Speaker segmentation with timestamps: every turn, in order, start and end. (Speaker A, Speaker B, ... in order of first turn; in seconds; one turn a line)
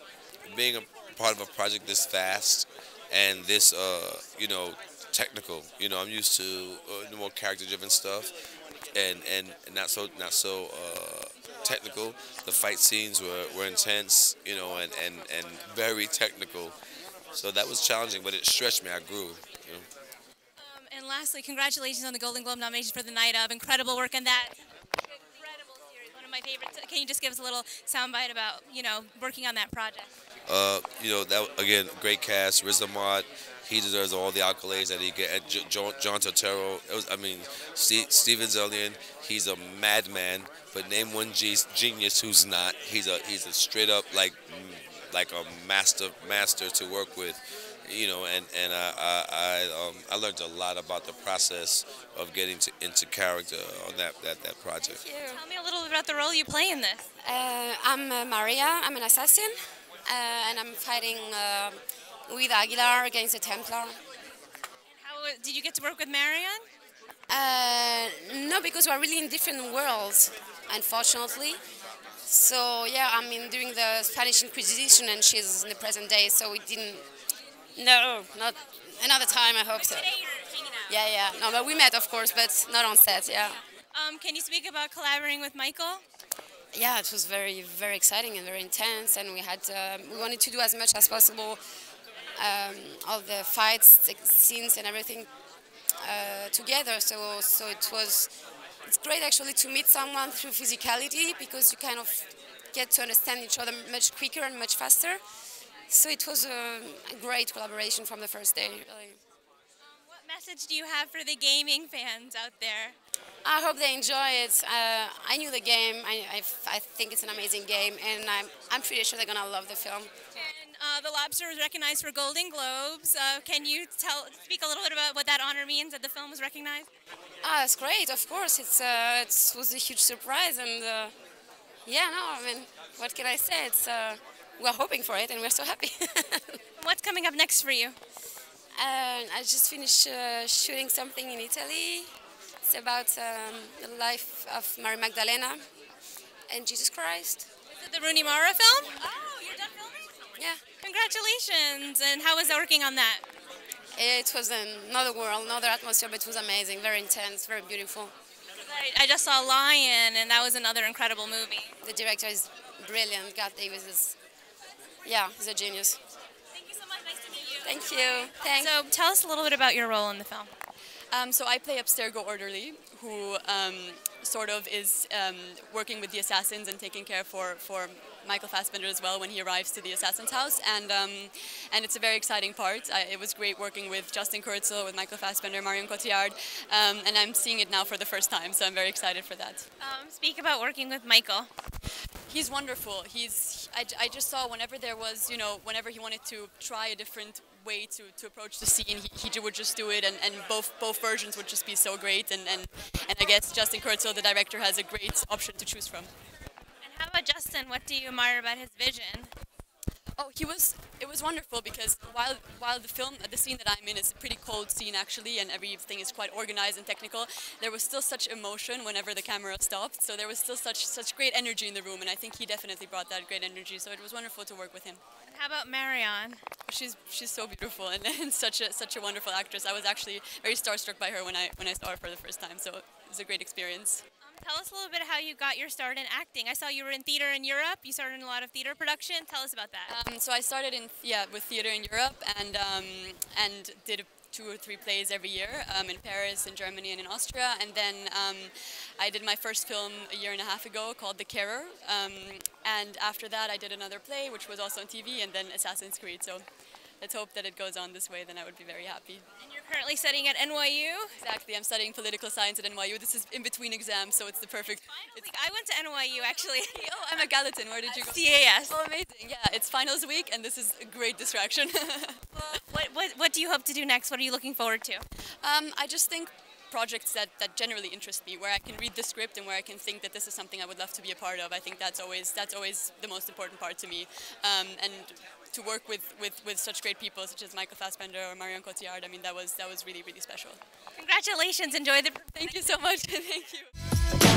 Speaker A: 0.5-8.3
Speaker A: 8.9-16.8
Speaker A: 17.3-19.9
Speaker B: 20.6-24.5
Speaker B: 25.4-30.1
Speaker A: 30.5-55.0
Speaker C: 54.8-55.4
Speaker B: 55.2-57.0
Speaker C: 57.2-64.0
Speaker B: 64.9-66.6
Speaker C: 67.3-71.6
Speaker C: 72.2-77.0
Speaker C: 77.8-80.1
Speaker B: 79.9-80.8
Speaker C: 80.9-83.6
Speaker B: 83.9-86.0
Speaker C: 86.7-91.6
Speaker C: 92.3-95.3
Speaker C: 96.0-98.3
Speaker C: 98.9-105.2
Speaker C: 105.9-109.2
Speaker B: 110.1-113.0
Speaker C: 113.4-120.1
Speaker B: 120.3-126.9
Speaker C: 127.4-131.1
Speaker C: 131.8-136.6
Speaker B: 136.8-137.9
Speaker C: 138.8-142.1
Speaker C: 142.6-145.6
Speaker C: 146.5-147.5
Speaker B: 147.7-150.0
Speaker B: 150.8-153.2
Speaker C: 153.9-158.1
Speaker B: 158.6-161.7
Speaker C: 161.8-164.1
Speaker C: 165.0-166.0
Speaker C: 167.6-168.7
Speaker B: 168.4-170.5
Speaker D: 171.1-189.7
Speaker B: 189.8-191.5
Speaker D: 192.3-206.1
Speaker B: 206.8-209.3
Speaker D: 210.2-225.0
Speaker B: 225.3-226.4
Speaker D: 226.7-234.0
Speaker B: 234.2-239.9
Speaker D: 239.9-256.4
Speaker D: 257.0-259.2
Speaker B: 259.4-261.1
Speaker D: 261.2-265.3
Speaker B: 264.9-268.8
Speaker D: 266.2-272.2
Speaker B: 272.3-275.0
Speaker D: 275.4-290.6
Speaker B: 291.0-292.7
Speaker D: 292.4-293.7